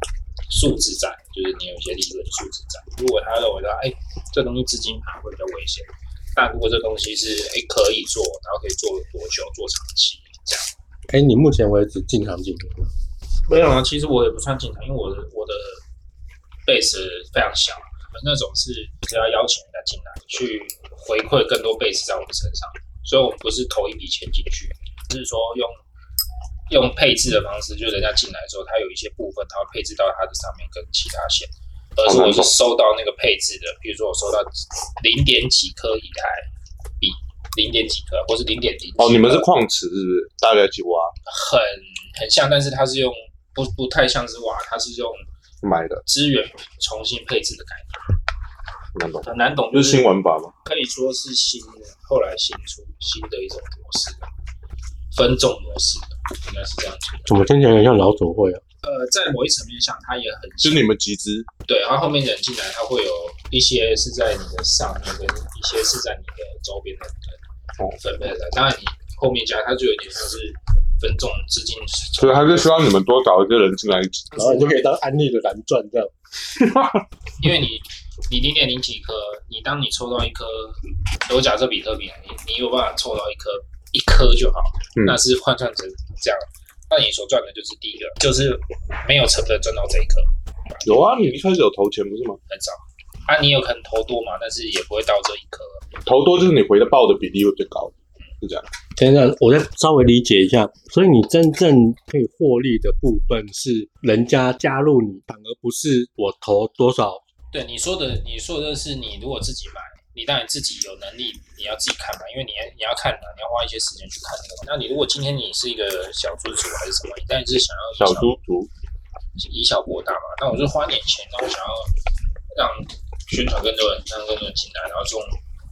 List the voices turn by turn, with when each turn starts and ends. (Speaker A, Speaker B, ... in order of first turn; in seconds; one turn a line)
Speaker A: 0.5-10.7
Speaker B: 11.1-12.9
Speaker A: 13.5-15.8
Speaker A: 16.6-25.8
Speaker A: 26.7-36.5
Speaker C: 32.0-32.5
Speaker A: 37.0-39.5
Speaker C: 39.0-41.1
Speaker A: 41.3-45.3
Speaker C: 45.6-46.0
Speaker A: 46.0-48.0
Speaker C: 48.9-50.5
Speaker A: 49.2-50.1
Speaker A: 50.6-54.3
Speaker A: 55.1-57.3
Speaker B: 57.2-58.6
Speaker A: 58.8-60.9
Speaker C: 60.6-61.5
Speaker A: 61.6-67.4
Speaker A: 67.9-72.8
Speaker C: 72.2-74.4
Speaker B: 74.3-76.1
Speaker C: 76.6-77.0
Speaker A: 77.4-91.4
Speaker C: 90.8-92.4
Speaker A: 92.5-95.8
Speaker C: 96.0-98.7
Speaker B: 99.0-107.2
Speaker A: 107.5-118.3
Speaker C: 118.0-118.7
Speaker A: 119.4-121.9
Speaker A: 122.5-125.3